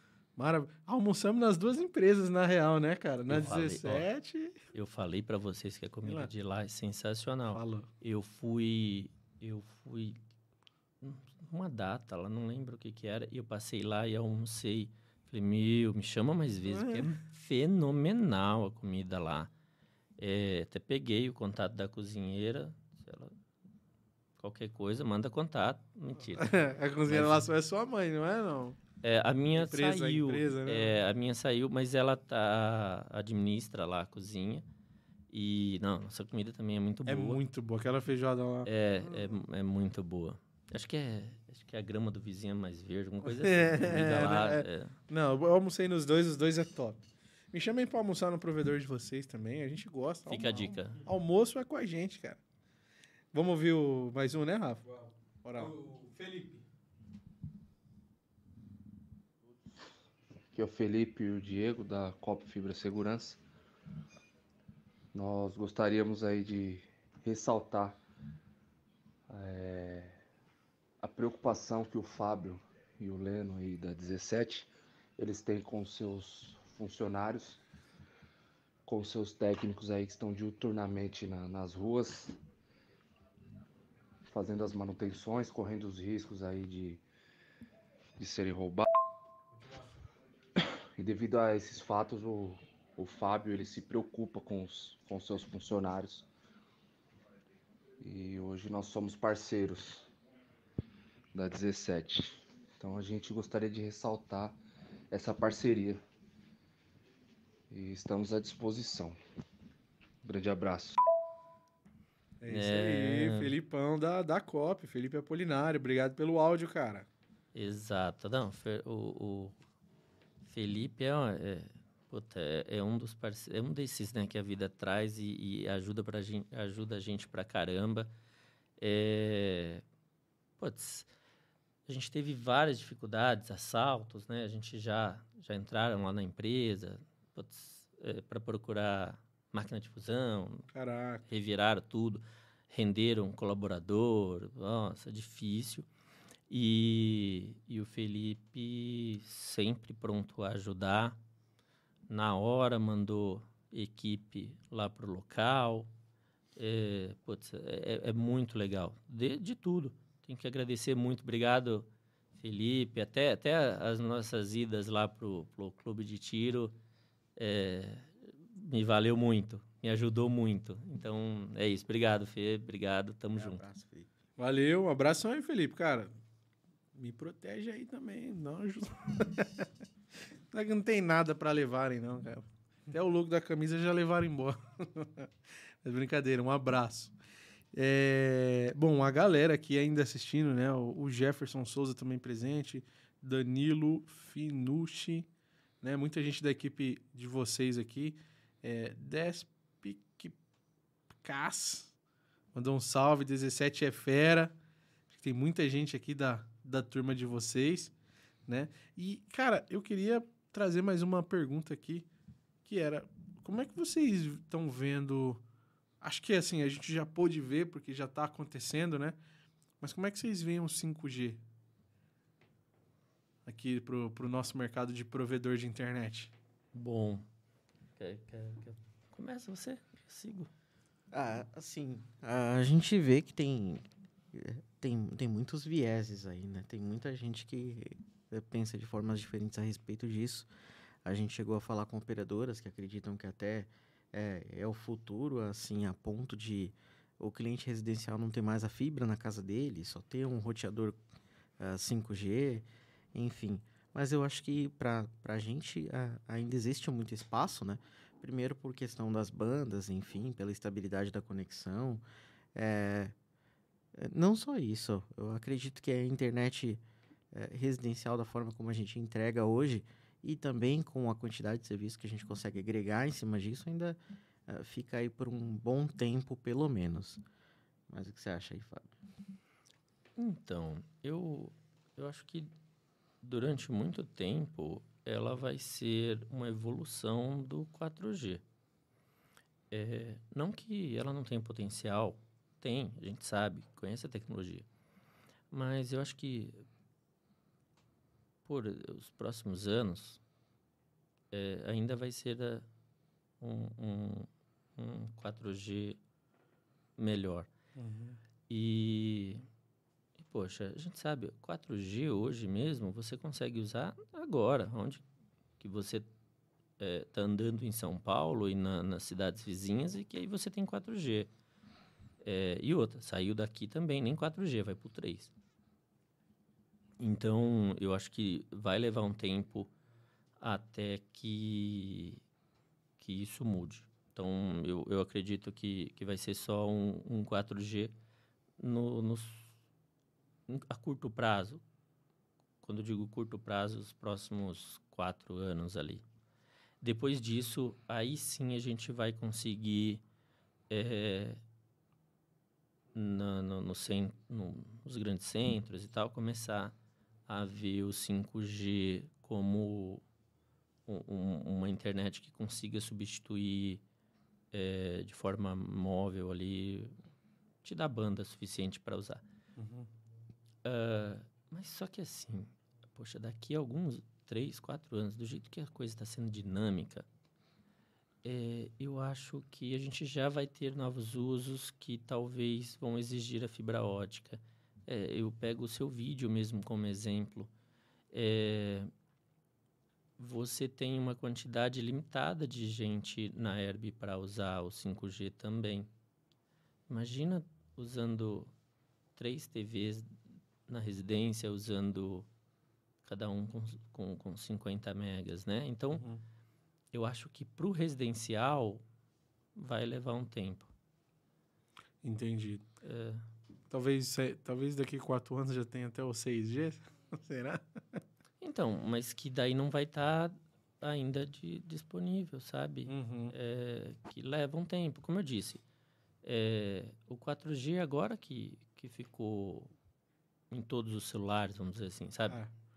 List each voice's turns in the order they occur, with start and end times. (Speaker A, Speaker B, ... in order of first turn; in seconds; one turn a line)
Speaker A: 0.4-4.6
Speaker B: 3.3-4.0
Speaker B: 4.7-10.2
Speaker A: 6.0-6.3
Speaker A: 7.5-7.9
Speaker B: 11.0-19.5
Speaker A: 16.7-17.1
Speaker B: 20.2-23.3
Speaker B: 24.4-26.5
Speaker A: 26.3-28.8
Speaker B: 27.1-27.4
Speaker B: 29.0-34.6
Speaker A: 29.6-31.0
Speaker B: 35.3-37.4
Speaker A: 37.0-39.4
Speaker B: 38.6-44.9
Speaker A: 43.2-47.0
Speaker A: 47.5-52.4
Speaker B: 50.3-51.0
Speaker A: 53.3-54.8
Speaker C: 54.9-56.6
Speaker A: 55.4-55.8
Speaker D: 60.5-63.4
Speaker D: 65.1-68.0
Speaker D: 69.3-70.2
Speaker D: 71.0-77.6
Speaker D: 78.8-82.4
Speaker D: 84.2-87.0
Speaker D: 88.2-88.9
Speaker C: 89.5-89.8
Speaker D: 91.0-96.3
Speaker D: 98.0-100.1
Speaker D: 101.3-104.6
Speaker D: 105.1-106.0
Speaker D: 107.7-109.2
Speaker D: 110.2-111.0
Speaker A: 112.4-117.1
Speaker B: 112.5-113.5
Speaker B: 117.5-119.5
Speaker B: 120.4-128.1
Speaker B: 128.8-129.8
Speaker B: 130.6-131.1
Speaker B: 131.9-140.7
Speaker A: 140.7-141.2
Speaker B: 141.3-145.8
Speaker B: 146.5-151.2
Speaker B: 152.1-155.9
Speaker B: 156.6-166.7
Speaker B: 167.4-173.6
Speaker E: 173.3-174.1
Speaker A: 174.4-176.1
Speaker A: 176.9-179.7
Speaker A: 180.5-185.3
Speaker A: 185.8-187.1
Speaker A: 187.7-195.3
Speaker A: 195.8-200.3
Speaker A: 201.1-201.9
Speaker A: 202.5-204.5
Speaker A: 205.1-207.9
Speaker A: 208.5-212.1
Speaker A: 212.7-215.4
Speaker A: 216.0-219.2
Speaker A: 219.8-221.4
Speaker A: 223.4-226.3
Speaker B: 226.7-227.2
Speaker B: 228.0-230.5
Speaker E: 231.1-240.5
Speaker E: 241.0-251.0
Speaker E: 251.6-262.0
Speaker E: 262.5-263.1
Speaker E: 263.9-277.2
Speaker E: 277.9-278.9
Speaker B: 280.1-282.5
Speaker B: 283.2-288.4
Speaker B: 289.7-294.6
Speaker B: 295.5-296.6
Speaker B: 298.4-300.2
Speaker B: 301.3-302.7
Speaker B: 303.4-306.0
Speaker B: 307.0-307.5
Speaker A: 307.8-308.2
Speaker B: 308.5-309.4
Speaker B: 310.2-315.0
Speaker B: 315.6-316.1
Speaker B: 316.8-321.3
Speaker B: 322.2-325.3
Speaker B: 327.0-329.7
Speaker B: 330.4-332.2
Speaker B: 333.0-337.9
Speaker B: 338.6-339.5
Speaker B: 340.5-341.6
Speaker B: 342.6-346.0
Speaker B: 346.8-350.0
Speaker B: 350.7-351.4
Speaker B: 352.9-356.7
Speaker B: 357.3-360.0
Speaker B: 360.9-363.8
Speaker B: 364.5-366.9
Speaker B: 367.6-369.2
Speaker A: 369.6-369.9
Speaker B: 370.6-377.1
Speaker B: 378.2-387.5
Speaker B: 388.1-388.9
Speaker B: 390.2-395.9
Speaker B: 396.9-398.5
Speaker B: 399.1-400.1
Speaker B: 400.7-402.3
Speaker B: 403.0-406.0
Speaker A: 405.9-406.2
Speaker B: 406.9-408.8
Speaker B: 409.5-410.7
Speaker A: 412.0-412.6
Speaker B: 412.8-413.2
Speaker A: 413.7-418.0
Speaker B: 418.4-425.6
Speaker A: 422.9-423.3
Speaker B: 426.2-429.7
Speaker B: 430.5-432.4